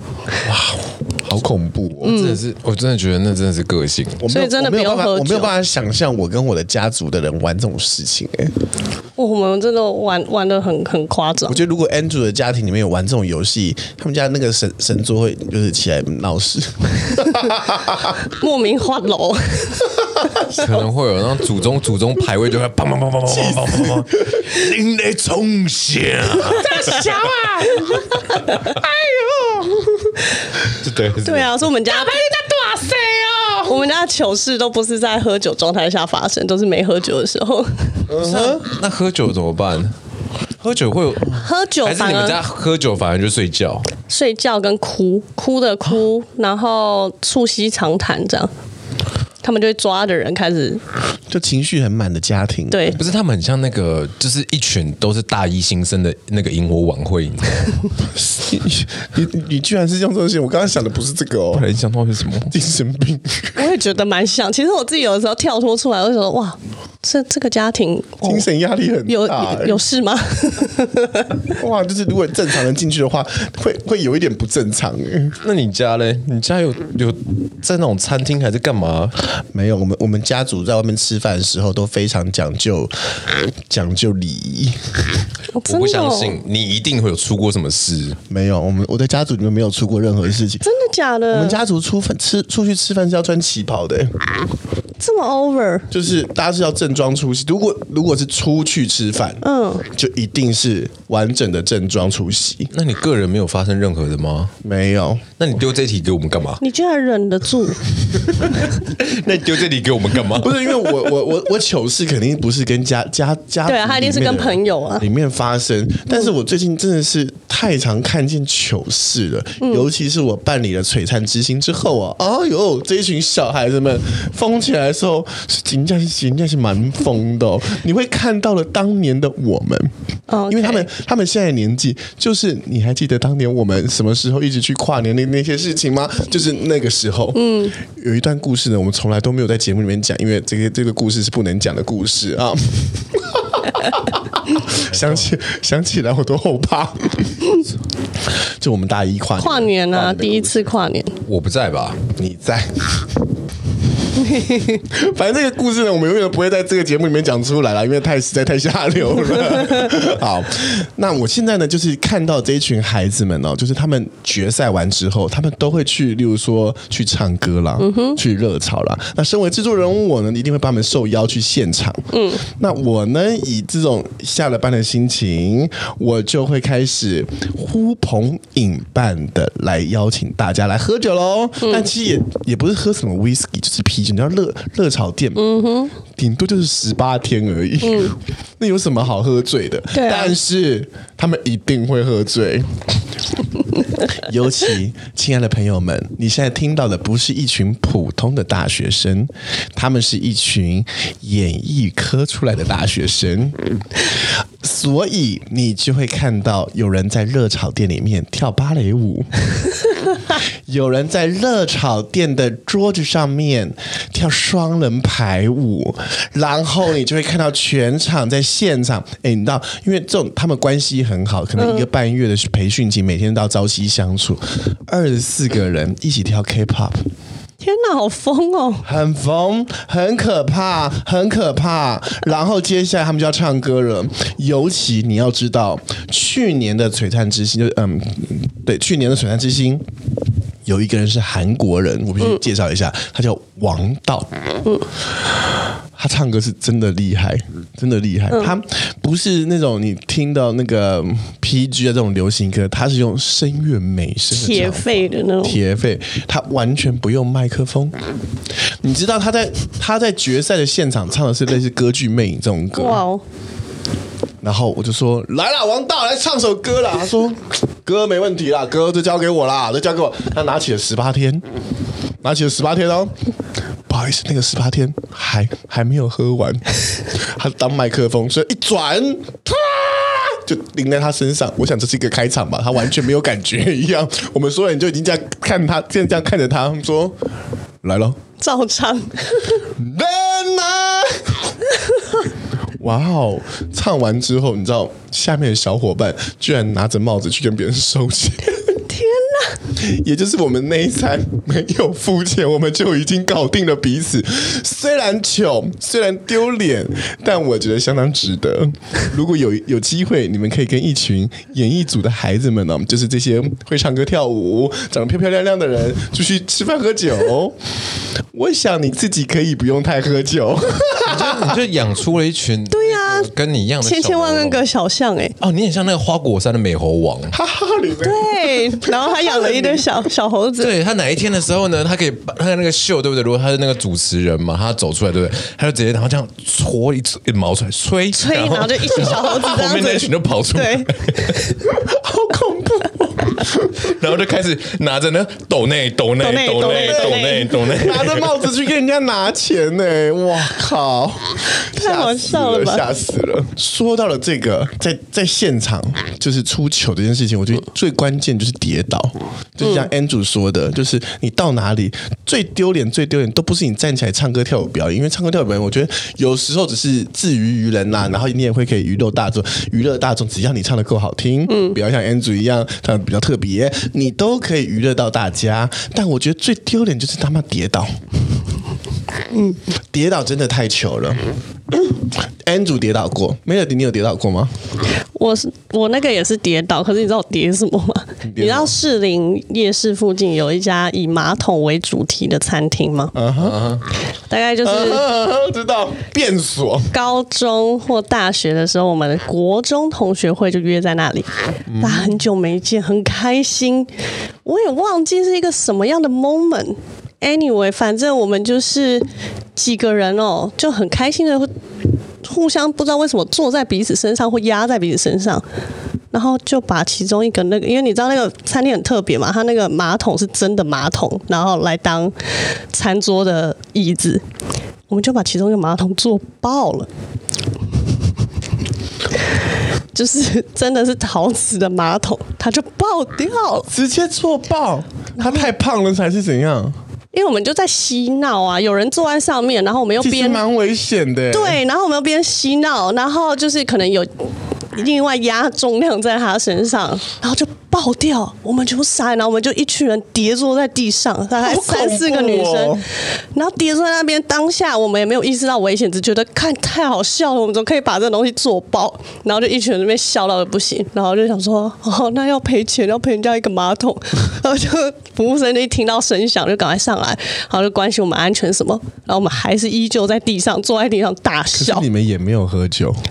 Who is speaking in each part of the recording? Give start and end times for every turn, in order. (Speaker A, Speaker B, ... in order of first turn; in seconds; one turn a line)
Speaker A: 0.5-4.2
Speaker B: 1.3-2.1
Speaker C: 2.0-2.4
Speaker B: 4.2-8.5
Speaker C: 4.3-5.5
Speaker C: 9.2-11.6
Speaker B: 11.5-18.2
Speaker C: 18.2-20.1
Speaker A: 20.5-27.3
Speaker B: 23.3-24.0
Speaker B: 26.6-30.2
Speaker C: 26.7-27.0
Speaker C: 27.7-28.7
Speaker A: 30.7-31.6
Speaker C: 31.2-32.2
Speaker B: 31.9-33.8
Speaker C: 33.6-38.1
Speaker A: 38.1-39.9
Speaker B: 38.1-38.6
Speaker A: 40.6-43.9
Speaker C: 41.3-42.4
Speaker C: 44.1-48.5
Speaker C: 49.4-50.8
Speaker B: 51.3-53.0
Speaker C: 52.7-53.0
Speaker A: 53.0-57.8
Speaker B: 58.0-61.7
Speaker A: 61.5-62.5
Speaker B: 62.5-63.7
Speaker C: 63.6-68.5
Speaker B: 68.2-69.8
Speaker C: 69.1-71.4
Speaker B: 71.6-75.4
Speaker A: 75.4-79.2
Speaker B: 79.5-85.0
Speaker C: 85.5-86.4
Speaker A: 85.7-88.2
Speaker B: 88.3-90.7
Speaker C: 90.6-91.6
Speaker B: 91.3-94.2
Speaker C: 95.0-95.9
Speaker B: 95.9-102.7
Speaker C: 99.4-99.9
Speaker A: 102.7-104.5
Speaker B: 104.6-105.3
Speaker A: 105.4-106.6
Speaker C: 106.6-107.8
Speaker A: 108.3-110.6
Speaker B: 110.3-129.9
Speaker C: 113.7-115.1
Speaker C: 119.6-119.9
Speaker C: 130.3-130.9
Speaker B: 130.5-147.6
Speaker C: 137.3-137.8
Speaker A: 144.8-145.3
Speaker B: 148.6-150.6
Speaker C: 149.4-151.1
Speaker A: 151.2-152.0
Speaker B: 152.2-153.2
Speaker C: 154.2-154.8
Speaker B: 154.9-185.4
Speaker C: 167.8-168.2
Speaker C: 172.1-172.4
Speaker C: 181.6-181.9
Speaker C: 185.3-186.0
Speaker B: 186.1-192.8
Speaker C: 187.8-188.1
Speaker C: 189.9-190.3
Speaker B: 194.0-209.3
Speaker B: 210.3-227.0
Speaker C: 221.6-221.9
Speaker C: 227.6-228.9
Speaker B: 228.8-239.8
Speaker B: 240.7-244.3
Speaker B: 246.0-257.9
Speaker C: 254.3-255.6
Speaker B: 258.8-263.0
Speaker C: 262.8-263.2
Speaker B: 264.4-271.4
Speaker B: 272.2-273.1
Speaker B: 273.9-287.2
Speaker B: 287.8-288.2
Speaker C: 288.4-289.6
Speaker B: 289.7-291.5
Speaker B: 292.8-298.8
Speaker C: 298.9-299.6
Speaker B: 299.8-317.6
Speaker B: 318.3-321.6
Speaker A: 321.0-324.6
Speaker C: 322.7-323.3
Speaker C: 323.8-325.4
Speaker A: 325.4-327.4
Speaker B: 327.3-329.9
Speaker C: 328.0-330.7
Speaker A: 330.6-341.6
Speaker C: 338.1-341.5
Speaker B: 341.7-343.8
Speaker A: 343.8-348.4
Speaker C: 346.2-347.8
Speaker B: 346.6-378.0
Speaker C: 351.7-352.8
Speaker C: 359.6-359.9
Speaker C: 371.5-371.8
Speaker B: 379.9-384.5
Speaker C: 385.2-393.1
Speaker B: 388.2-388.8
Speaker B: 393.1-393.8
Speaker A: 393.4-393.8
Speaker C: 394.3-395.1
Speaker B: 394.6-396.9
Speaker C: 396.9-403.9
Speaker B: 401.7-402.1
Speaker C: 404.4-411.5
Speaker C: 412.2-415.4
Speaker C: 416.1-422.1
Speaker C: 422.7-424.2
Speaker C: 424.9-426.9
Speaker C: 429.9-433.7
Speaker B: 433.7-436.8
Speaker C: 435.2-435.5
Speaker C: 437.1-440.4
Speaker B: 440.0-441.6
Speaker C: 441.3-444.1
Speaker C: 444.7-452.8
Speaker B: 451.4-452.8
Speaker C: 453.3-471.9
Speaker B: 471.5-473.0